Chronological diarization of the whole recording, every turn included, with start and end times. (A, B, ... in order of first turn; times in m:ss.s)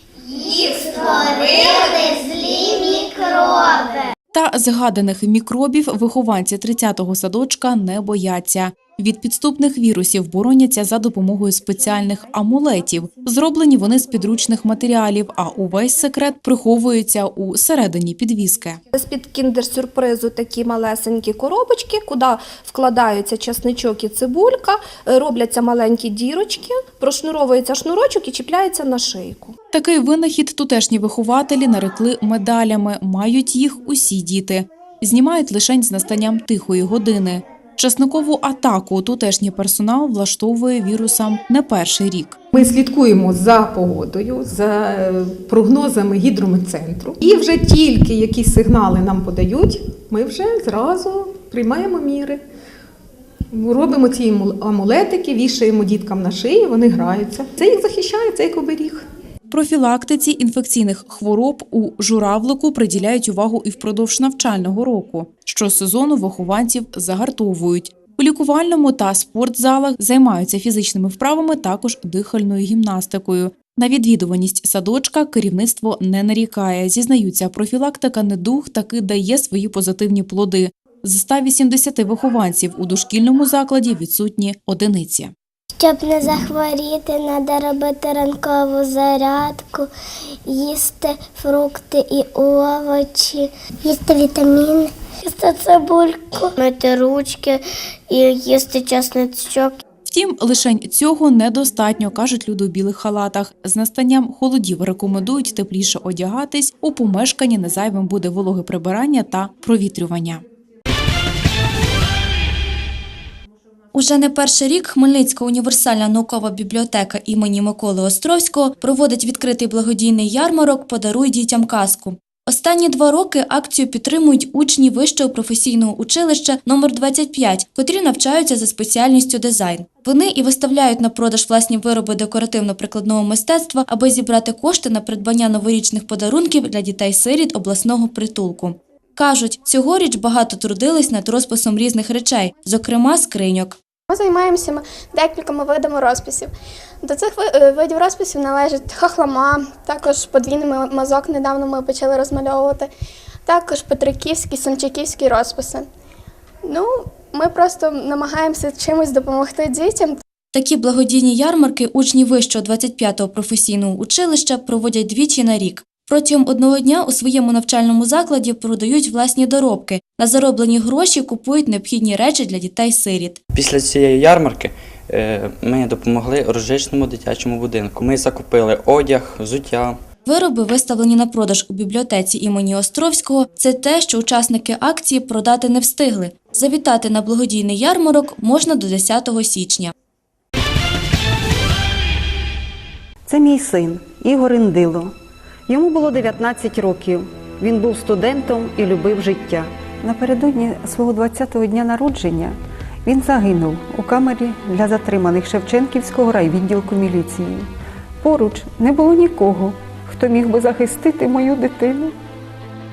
0:00.3-0:04.0 A
0:04.3-0:18.8 B
0:18.9-0:29.6 C
0:29.7-0:42.4 B
0:42.7-0:52.4 D
0:53.6-0:59.0 D
0:59.5-1:25.3 B
1:25.8-1:29.9 A
1:30.5-1:39.8 A
1:40.1-1:50.4 B
1:53.9-2:23.8 E
2:24.1-2:26.5 F
2:27.0-2:32.9 F
2:33.5-2:35.9 F
2:36.6-2:40.2 F
2:40.5-2:53.4 E
2:53.5-3:00.0 G
3:00.3-3:09.9 E
3:13.3-3:15.1 H
3:15.7-3:27.7 H
3:28.2-3:32.1 H